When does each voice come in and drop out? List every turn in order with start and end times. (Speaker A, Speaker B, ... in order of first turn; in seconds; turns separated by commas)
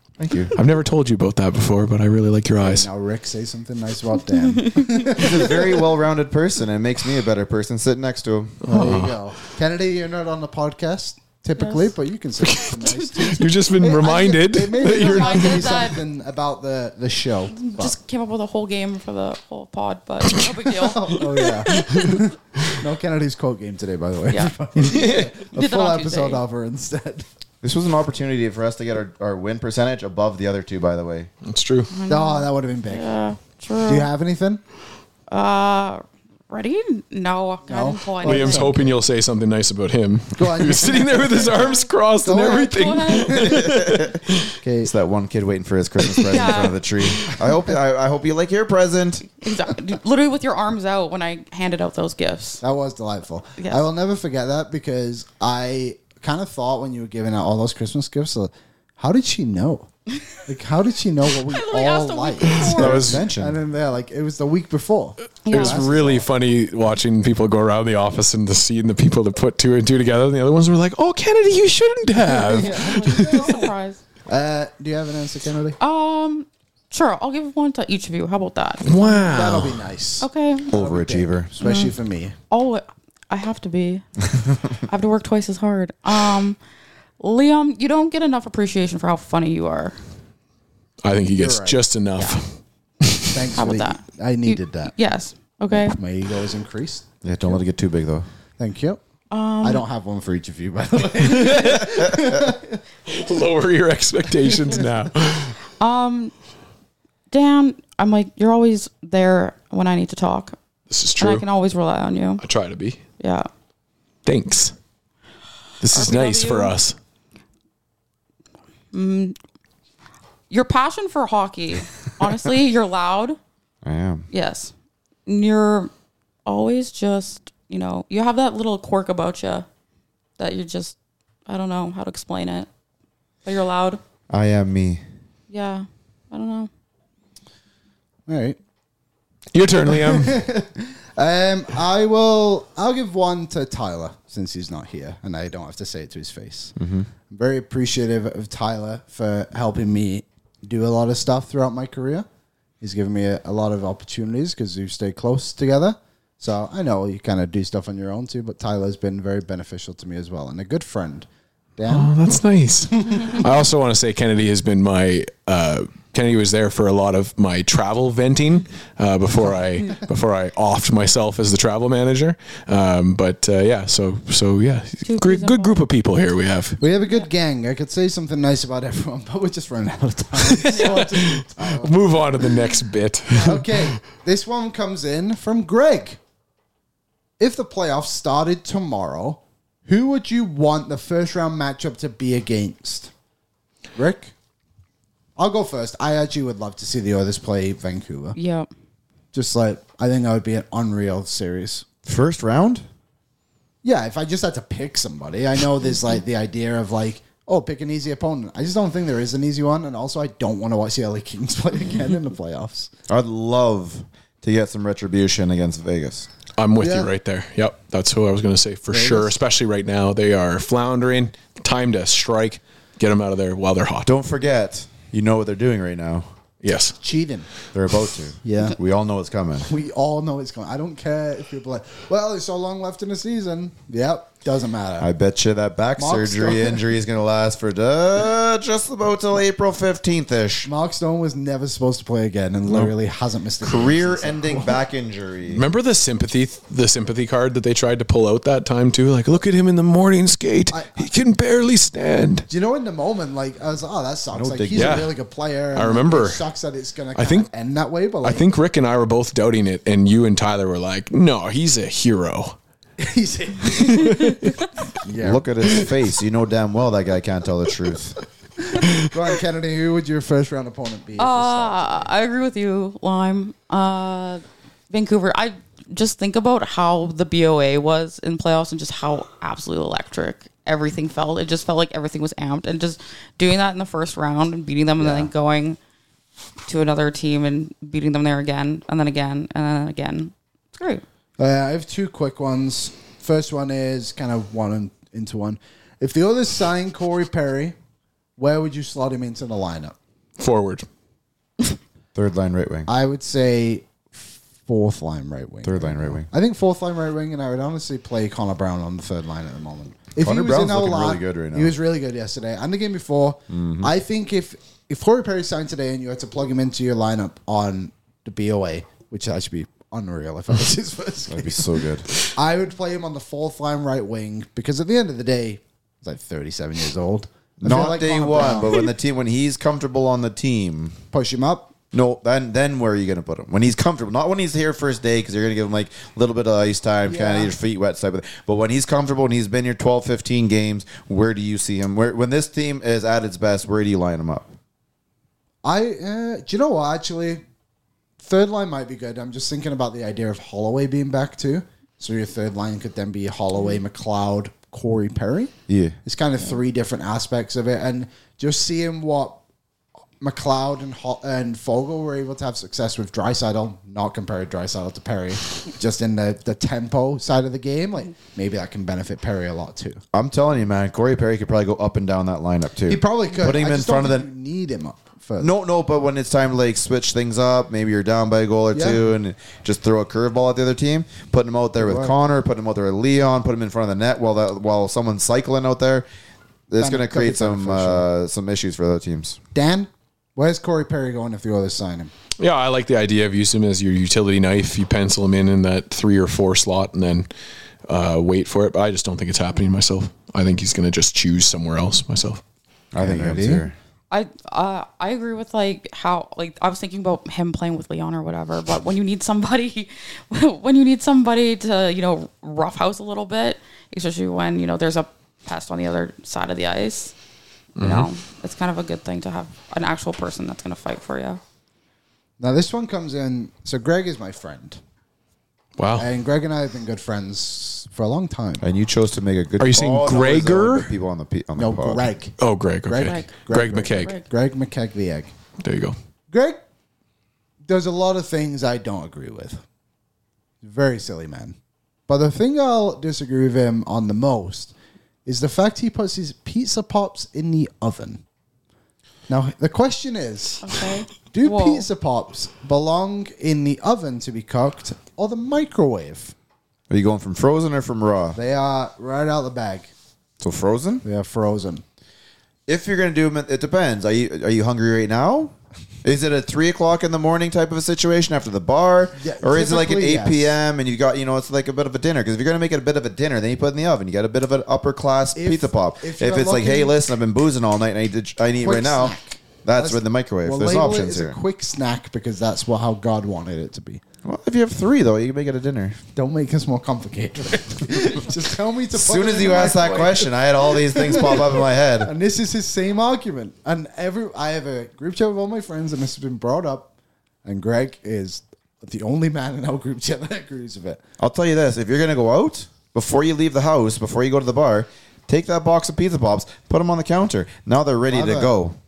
Speaker A: 0.2-0.5, Speaker B: 0.5-2.9, Speaker C: 2.6-5.8, Speaker D: 4.6-5.0, Speaker A: 5.2-9.0, Speaker B: 8.6-9.2, Speaker C: 8.7-17.9, Speaker D: 11.6-11.9, Speaker B: 12.4-15.9, Speaker D: 14.8-16.0, Speaker D: 17.5-22.1, Speaker C: 20.7-27.2, Speaker B: 21.8-22.1, Speaker B: 24.8-25.3, Speaker D: 25.5-26.4, Speaker A: 27.6-31.3, Speaker B: 31.4-31.9, Speaker D: 31.9-34.1, Speaker C: 32.1-33.2, Speaker C: 33.8-34.6, Speaker D: 35.3-38.7, Speaker C: 37.7-39.0, Speaker B: 38.2-44.5, Speaker C: 40.4-44.0, Speaker D: 42.5-43.3, Speaker A: 43.5-44.1, Speaker C: 44.6-44.9, Speaker A: 44.8-49.3, Speaker D: 46.3-46.8, Speaker D: 49.4-52.6, Speaker C: 52.6-59.9, Speaker C: 60.5-66.2, Speaker D: 61.5-63.0, Speaker A: 62.6-63.6, Speaker B: 62.6-63.3, Speaker D: 65.4-65.8, Speaker B: 65.5-73.6, Speaker D: 72.3-74.0, Speaker C: 72.5-73.7, Speaker C: 74.3-75.8, Speaker D: 75.8-79.3, Speaker B: 78.8-79.8, Speaker C: 79.2-82.3, Speaker D: 80.2-80.7, Speaker A: 80.7-81.5, Speaker D: 81.6-81.9, Speaker D: 82.5-84.0, Speaker D: 84.9-86.6, Speaker D: 87.2-89.9, Speaker B: 91.0-93.4, Speaker C: 91.4-91.8, Speaker C: 93.3-94.9, Speaker D: 93.6-96.0, Speaker C: 95.7-97.6, Speaker A: 97.2-98.2, Speaker C: 98.6-99.0, Speaker D: 99.3-99.8, Speaker C: 99.6-102.8, Speaker B: 101.3-101.8, Speaker B: 103.1-105.6, Speaker D: 105.8-106.3, Speaker D: 107.3-110.5, Speaker B: 110.9-111.5, Speaker D: 111.2-112.4, Speaker B: 112.4-113.0, Speaker D: 113.2-113.5, Speaker B: 114.2-114.7, Speaker B: 115.8-117.0, Speaker D: 115.9-116.7, Speaker D: 118.9-119.3, Speaker D: 120.5-123.4, Speaker A: 123.8-124.2, Speaker D: 124.3-124.7, Speaker D: 125.2-125.9, Speaker D: 126.5-129.7, Speaker D: 130.4-132.7, Speaker D: 133.4-134.0, Speaker A: 134.3-135.0, Speaker D: 135.5-136.7, Speaker C: 138.3-138.6, Speaker B: 139.5-140.3, Speaker C: 139.9-146.7, Speaker A: 146.8-147.1, Speaker C: 147.3-152.2, Speaker C: 152.8-162.1, Speaker B: 161.9-176.8, Speaker C: 163.0-163.4, Speaker C: 169.4-170.1, Speaker D: 175.0-175.8, Speaker C: 176.8-181.9, Speaker B: 180.4-183.9, Speaker C: 183.3-186.2, Speaker C: 187.4-193.1, Speaker C: 193.9-194.3, Speaker C: 195.4-198.3, Speaker D: 198.3-198.7, Speaker C: 199.3-201.8, Speaker A: 202.0-202.8, Speaker C: 203.8-212.9, Speaker A: 213.1-216.3, Speaker B: 216.6-224.1, Speaker C: 216.8-217.1, Speaker C: 218.9-219.3, Speaker A: 224.0-226.3, Speaker B: 226.6-227.0, Speaker C: 227.0-227.5, Speaker A: 227.7-229.7, Speaker C: 228.4-228.8, Speaker C: 229.7-235.1, Speaker A: 235.0-240.7, Speaker C: 236.0-236.8, Speaker C: 240.6-244.8, Speaker A: 243.6-245.6, Speaker B: 245.5-252.4, Speaker C: 250.7-251.1, Speaker C: 252.5-258.4, Speaker A: 254.3-255.1, Speaker B: 254.7-255.1, Speaker B: 255.7-256.4, Speaker B: 257.1-257.5, Speaker B: 258.2-262.6, Speaker C: 263.0-265.9, Speaker D: 264.0-264.6, Speaker A: 265.2-268.2, Speaker C: 268.6-272.1, Speaker D: 271.2-285.8, Speaker C: 285.0-285.3, Speaker D: 286.7-291.0, Speaker C: 291.4-297.8, Speaker C: 298.4-299.9, Speaker B: 300.4-300.9, Speaker A: 302.1-302.9, Speaker C: 302.9-321.7, Speaker A: 305.6-306.3, Speaker A: 310.2-311.7, Speaker A: 313.5-313.9, Speaker A: 321.3-322.1, Speaker C: 322.3-328.9, Speaker A: 327.6-331.0, Speaker C: 331.1-331.7, Speaker A: 331.9-344.5, Speaker C: 337.0-337.5, Speaker C: 345.6-347.4, Speaker C: 348.2-359.4, Speaker A: 355.7-356.0, Speaker C: 360.2-370.0, Speaker A: 370.1-374.3, Speaker C: 372.9-375.5, Speaker A: 375.4-386.1, Speaker C: 378.7-379.0, Speaker C: 381.8-382.1, Speaker A: 386.7-389.4, Speaker C: 386.8-388.1, Speaker C: 389.5-392.1, Speaker B: 392.4-397.3, Speaker B: 397.9-402.4, Speaker A: 402.9-403.8, Speaker C: 403.0-403.6, Speaker D: 404.1-417.1, Speaker B: 417.8-418.1, Speaker D: 417.8-421.4, Speaker C: 422.4-424.8, Speaker B: 425.8-426.1, Speaker C: 425.9-428.6, Speaker A: 428.6-432.1, Speaker B: 429.6-430.9, Speaker C: 431.6-432.3, Speaker B: 432.4-434.1, Speaker C: 432.9-435.3, Speaker D: 434.0-434.2, Speaker B: 435.6-435.9, Speaker C: 436.3-436.6, Speaker C: 437.6-439.6, Speaker C: 440.6-441.6, Speaker C: 442.1-444.7, Speaker C: 445.2-448.2, Speaker C: 449.3-456.3, Speaker D: 450.6-451.9, Speaker A: 456.9-458.4, Speaker C: 458.3-459.9, Speaker A: 460.4-461.0, Speaker C: 461.0-461.8, Speaker A: 462.7-481.4, Speaker C: 469.2-470.6, Speaker C: 475.3-476.9, Speaker C: 478.6-484.0, Speaker A: 484.2-486.0, Speaker C: 486.1-496.9, Speaker A: 488.9-492.1, Speaker C: 497.4-501.0, Speaker A: 501.2-508.8, Speaker C: 508.1-508.5